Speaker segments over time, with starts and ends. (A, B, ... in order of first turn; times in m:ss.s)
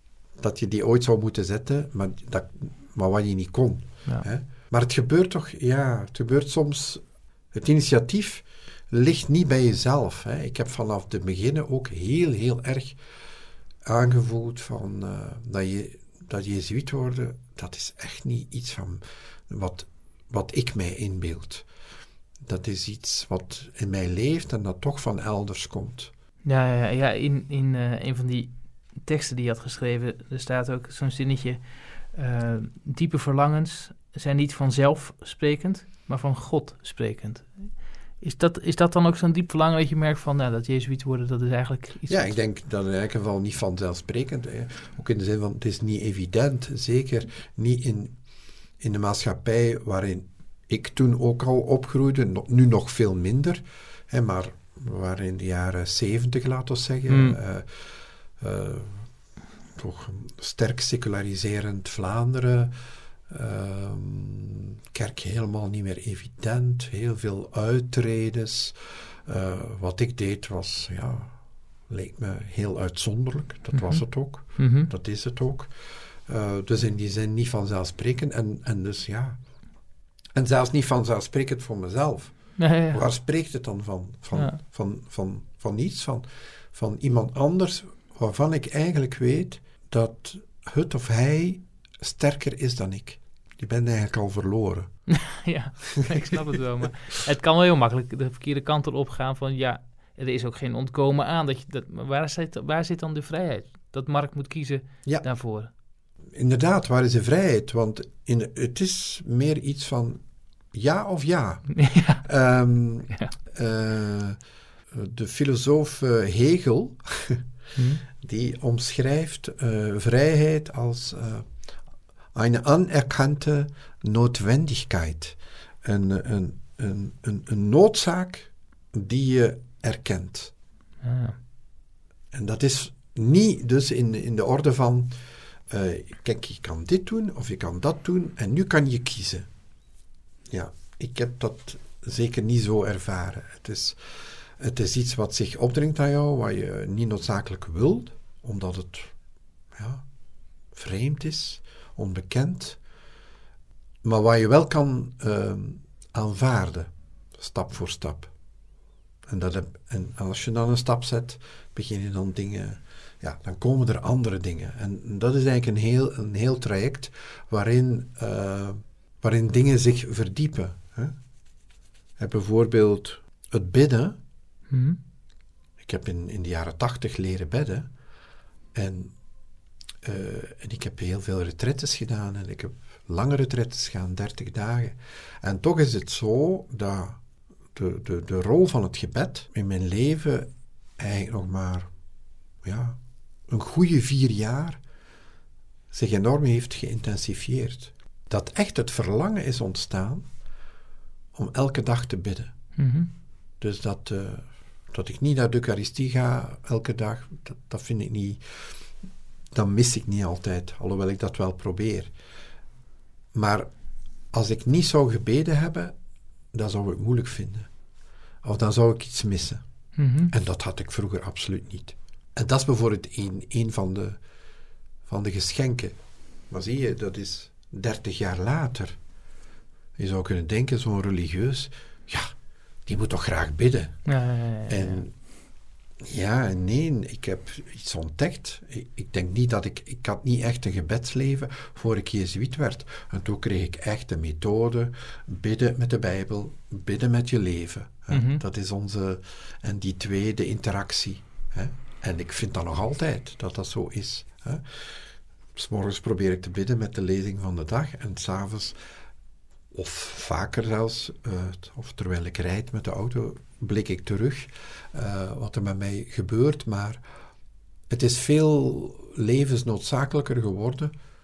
0:00.3-0:13.0 A
0:13.8-0:21.7 A
0:22.4-0:26.1 A
0:26.4-0:42.4 B
0:42.1-0:48.2 A
0:48.8-0:59.1 A
0:57.1-0:57.4 B
0:59.7-1:02.8 A
1:03.3-1:19.4 A
1:13.7-1:14.9 B
1:20.3-1:35.0 A
1:22.6-1:23.0 B
1:35.1-1:45.7 B
1:36.0-1:36.3 A
1:46.3-1:54.4 A
1:51.7-1:52.2 B
1:54.9-1:57.4 A
1:57.8-1:58.0 B
1:58.1-2:01.6 A
2:02.3-2:10.5 A
2:11.0-2:11.4 B
2:12.3-2:15.2 A
2:15.7-2:19.5 A
2:20.5-2:29.2 A
2:29.7-2:30.0 A
2:30.7-2:32.8 A
2:34.0-2:38.3 A
2:39.3-2:51.1 A
2:52.2-2:54.2 A
2:54.7-2:55.0 B
2:55.8-2:57.9 A
2:58.7-2:59.1 A
3:00.0-3:07.2 A
3:07.7-3:11.9 A
3:12.6-3:14.8 A
3:15.9-3:20.3 A
3:21.3-3:22.7 A
3:22.8-3:23.1 B
3:23.6-3:28.8 A
3:29.5-3:32.1 A
3:33.3-3:33.7 A
3:34.3-3:35.9 A
3:36.5-3:37.7 A
3:38.4-3:39.6 A
3:40.0-3:40.3 B
3:40.3-3:44.2 A
3:45.0-3:45.9 A
3:46.5-3:49.0 A
3:50.0-3:52.3 A
3:52.8-3:54.1 A
3:54.0-3:55.0 B
3:54.7-3:55.2 A
3:56.0-4:15.0 A
4:08.1-4:08.4 B
4:15.5-4:18.8 A
4:19.7-4:27.0 A
4:27.9-4:30.9 A